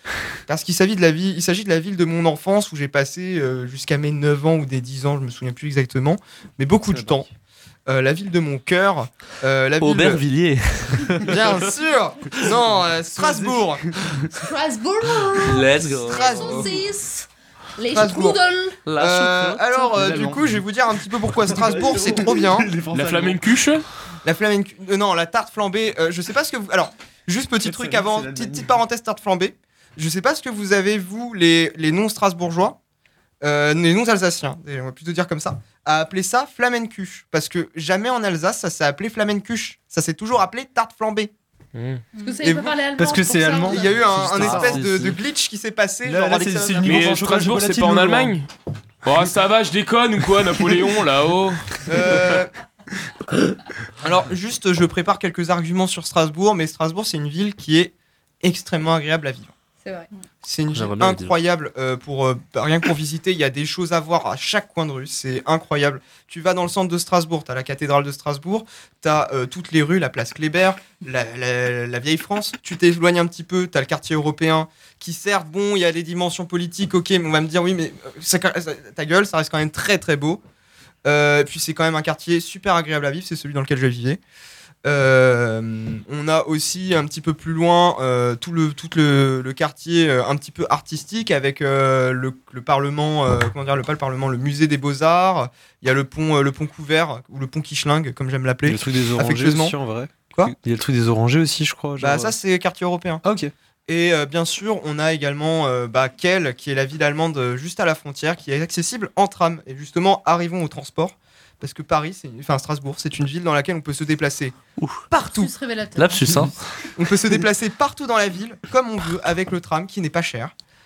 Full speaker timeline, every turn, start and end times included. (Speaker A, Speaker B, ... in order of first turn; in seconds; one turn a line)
Speaker A: 0.5-7.3
Speaker B: 6.9-7.2
Speaker A: 7.9-10.2
Speaker C: 9.8-11.7
Speaker A: 11.2-13.8
Speaker B: 12.7-14.2
Speaker D: 14.3-18.8
Speaker C: 15.4-16.6
Speaker A: 16.1-16.9
Speaker A: 17.9-18.4
Speaker C: 18.9-19.9
Speaker A: 19.0-22.7
Speaker D: 19.7-20.0
Speaker B: 19.9-20.6
Speaker B: 21.3-23.6
Speaker E: 22.9-23.8
Speaker A: 24.2-32.8
Speaker B: 27.6-28.8
Speaker A: 33.4-41.3
Speaker E: 41.7-42.0
Speaker D: 42.1-44.0
Speaker A: 42.4-42.8
Speaker B: 42.9-45.2
Speaker A: 43.6-47.2
Speaker C: 44.2-45.1
Speaker B: 46.0-48.4
Speaker E: 46.8-48.5
Speaker E: 49.0-51.8
Speaker A: 51.9-52.5
Speaker A: 54.0-59.5
Speaker D: 59.8-60.1
Speaker A: 60.4-80.4
Speaker C: 60.7-61.3
Speaker A: 81.0-84.2
Speaker A: 84.8-100.5
Speaker B: 98.7-102.3
Speaker A: 102.0-103.2
Speaker B: 103.2-103.5
Speaker A: 103.9-114.5
Speaker A: 115.1-115.5
Speaker D: 115.1-116.5
Speaker C: 116.0-116.5
Speaker A: 117.0-120.5